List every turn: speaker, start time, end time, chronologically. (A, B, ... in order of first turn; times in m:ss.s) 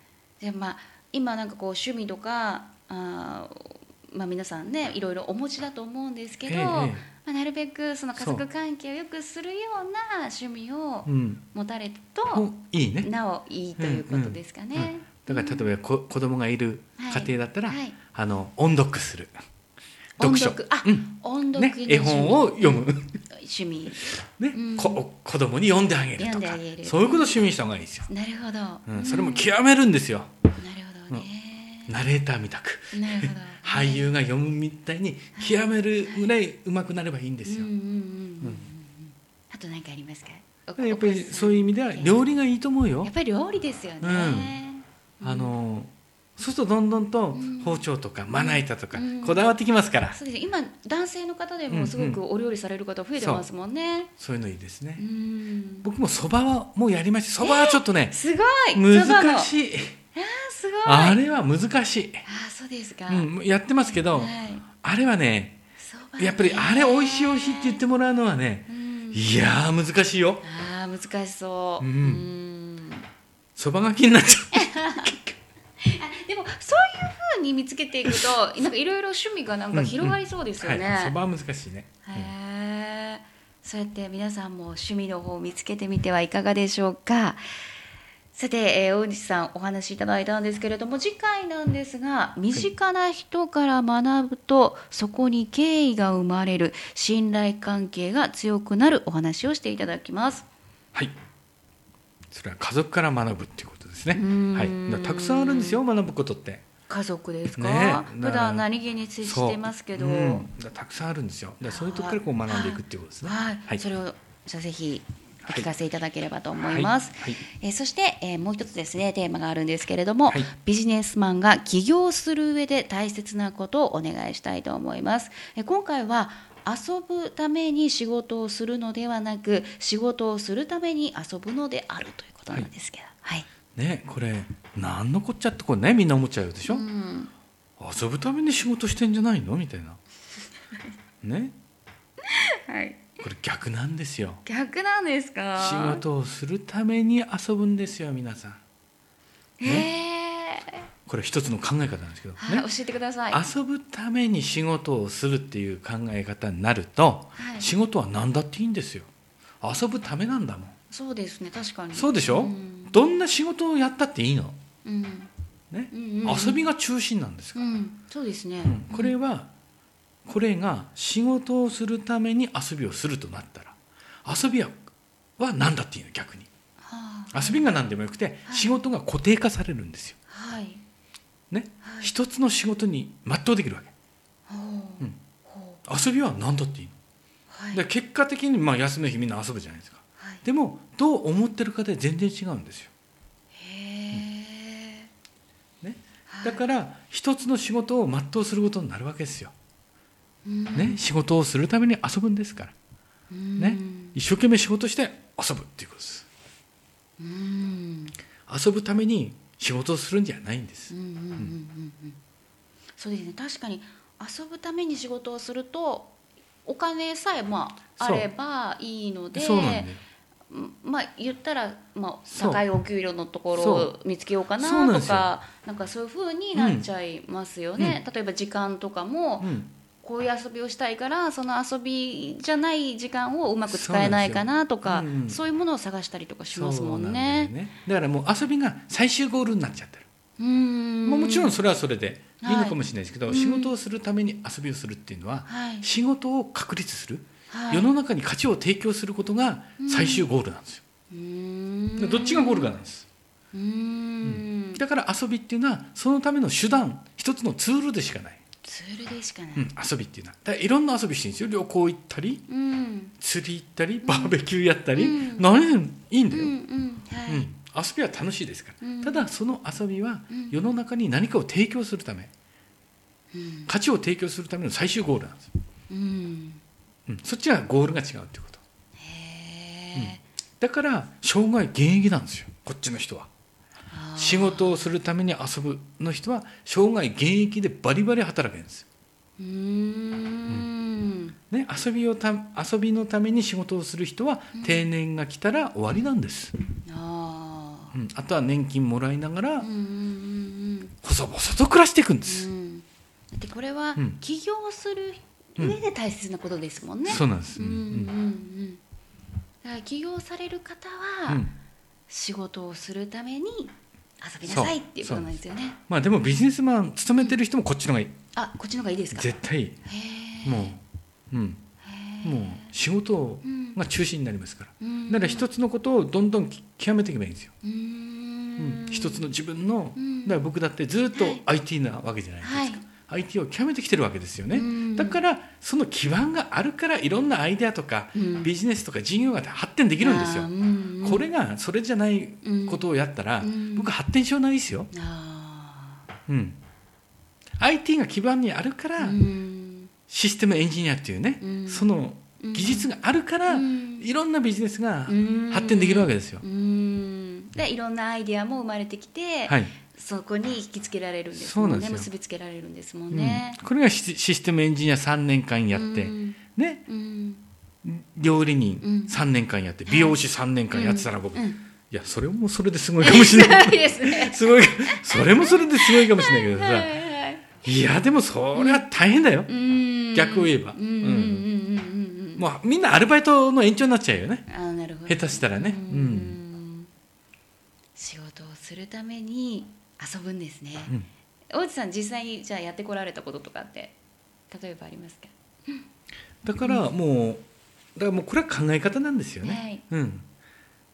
0:00.4-0:12.5 A
0:06.5-0:07.0 B
0:08.2-0:08.4 B
0:11.1-0:11.4 B
0:12.3-0:13.1 B
0:13.0-0:15.7 A
0:13.8-0:19.3 B
0:17.0-0:18.0 A
0:20.2-0:25.0 A
0:20.2-0:23.2 B
0:24.2-0:28.1 B
0:26.2-0:27.4 A
0:28.1-0:29.5 A
0:28.9-0:30.3 B
0:30.6-0:32.0 A
0:31.9-0:37.7 B
0:32.9-0:34.1 A
0:35.4-0:36.3 A
0:37.4-0:42.2 A
0:40.8-0:43.1 B
0:43.0-0:45.5 A
0:44.0-0:44.6 B
0:45.2-0:50.2 B
0:47.3-0:49.4 A
0:50.1-0:54.1 A
0:51.7-0:52.2 B
0:53.2-0:53.4 B
0:54.2-0:55.0 B
0:55.0-0:55.9 A
0:55.8-0:58.2 B
0:57.4-0:59.5 A
0:58.7-1:00.0 B
1:00.2-1:01.2 A
1:00.8-1:02.2 B
1:02.2-1:03.3 A
1:03.1-1:05.6 B
1:03.8-1:04.7 A
1:05.8-1:07.8 A
1:06.2-1:10.4 B
1:08.7-1:09.2 A
1:10.4-1:13.1 A
1:11.8-1:12.3 B
1:13.6-1:15.4 B
1:14.5-1:15.2 A
1:15.8-1:21.2 A
1:19.7-1:22.3 B
1:22.0-1:27.4 A
1:28.3-1:40.5 A
1:42.3-1:46.6 B
1:44.1-1:45.8 A
1:46.9-1:50.5 A
1:47.6-1:48.7 B
1:49.2-1:53.8 B
1:51.6-2:13.5 A
1:56.6-1:57.4 B
2:13.8-2:16.9 B
2:16.7-2:17.3 A
2:17.8-2:20.0 B
2:21.2-2:21.6 B
2:22.2-2:23.1 A
2:23.2-2:24.4 B
2:24.4-2:26.0 A
2:25.6-2:28.6 B
2:29.6-2:30.9 A
2:31.1-2:32.7 B
2:32.4-2:33.4 A
2:33.3-2:39.1 B
2:37.4-2:37.7 A
2:39.6-2:40.8 B
2:40.9-2:43.0 A
2:41.9-2:44.6 B
2:44.8-2:45.3 A
2:45.7-2:47.7 B
2:45.9-2:46.6 A
2:47.6-2:49.1 A
2:48.6-2:49.5 B
2:50.3-2:54.8 B
2:55.4-2:56.5 B
2:56.8-2:57.7 A
2:57.3-3:00.2 B
2:58.5-2:58.7 A
3:00.3-3:00.8 A
3:01.5-3:03.9 B
3:01.8-3:02.1 A
3:04.5-3:05.8 A
3:05.9-3:06.9 B
3:07.5-3:07.8 A
3:07.7-3:12.9 B
3:13.5-3:15.1 A
3:15.8-3:19.5 B
3:16.3-3:16.6 A
3:20.4-3:21.0 A
3:20.8-3:22.7 B
3:23.3-3:24.2 A
3:23.6-3:26.3 B
3:27.2-3:28.2 A
3:28.5-3:31.5 B
3:30.9-3:32.2 A
3:33.0-3:39.9 A
3:38.0-3:38.3 B
3:39.3-3:40.0 B
3:40.5-3:57.5 A
3:42.3-3:42.6 B
3:43.6-3:43.9 B
3:44.6-3:45.3 B
3:46.5-3:46.9 B
3:49.4-3:49.7 B
3:53.7-3:55.4 B
3:56.5-4:00.1 B
4:00.4-4:01.6 A
4:01.0-4:10.8 B
4:02.4-4:03.7 A
4:05.5-4:05.9 A
4:07.5-4:07.9 A
4:09.8-4:10.3 A
4:11.1-4:12.8 A
4:12.0-4:13.1 B
4:13.5-4:14.8 A
4:14.2-4:18.4 B
4:18.6-4:19.7 A
4:19.6-4:22.4 B
4:22.5-4:23.1 A
4:23.2-4:26.5 B
4:24.0-4:24.4 A
4:25.0-4:25.4 A
4:26.3-4:27.5 A
4:27.3-4:32.3 B
4:28.8-4:29.3 A
4:30.3-4:30.6 A
4:33.3-4:33.7 A
4:33.7-4:35.5 B
4:35.9-4:36.6 A
4:37.1-4:38.6 B
4:39.0-4:40.2 A
4:40.0-4:43.3 B
4:43.9-4:44.8 A
4:44.2-4:48.9 B
4:49.4-4:51.4 A
4:51.5-4:56.5 B
4:54.5-4:54.8 A
4:56.9-4:58.0 A
4:57.9-4:59.7 B
4:59.6-5:00.9 A
5:01.0-5:02.5 B
5:02.2-5:08.8 A
5:07.1-5:08.1 B
5:09.6-5:11.5 A
5:11.3-5:11.5 B
5:12.1-5:15.8 A
5:14.4-5:15.3 B
5:15.9-5:18.2 B
5:18.4-5:19.3 A
5:19.1-5:19.8 B
5:19.9-5:20.7 A
5:20.4-5:21.6 B
5:21.8-5:22.7 A
5:22.2-5:27.5 B
5:23.4-5:23.8 A
5:24.8-5:25.5 A
5:27.6-5:29.3 A
5:28.6-5:40.5 B
5:30.0-5:30.4 A
5:31.1-5:31.4 A
5:32.4-5:32.8 A
5:34.5-5:35.2 A
5:38.1-5:38.5 A
5:40.0-5:41.3 A
5:41.0-5:44.9 B
5:42.4-5:42.8 A
5:43.4-5:43.9 A
5:44.9-5:46.0 A
5:46.3-5:46.6 B
5:47.6-5:49.2 B
5:49.0-5:49.9 A
5:50.1-5:56.4 B
5:51.4-5:52.9 A
5:53.5-5:54.1 A
5:55.1-6:03.6 A
6:01.4-6:02.1 B
6:03.1-6:06.8 B
6:05.7-6:07.4 A
6:07.8-6:17.0 B
6:08.8-6:09.2 A
6:09.9-6:10.2 A
6:10.7-6:11.6 A
6:13.0-6:17.4 A
6:17.6-6:19.5 B
6:18.6-6:18.8 A
6:19.5-6:22.4 A
6:20.1-6:21.5 B
6:22.4-6:24.5 B
6:24.5-6:26.9 A
6:25.1-6:26.4 B
6:28.0-6:31.0 A
6:31.5-6:34.0 A
6:34.5-6:35.8 A
6:36.4-6:37.4 B
6:36.6-6:36.9 A
6:38.0-6:40.3 B
6:39.4-6:39.8 A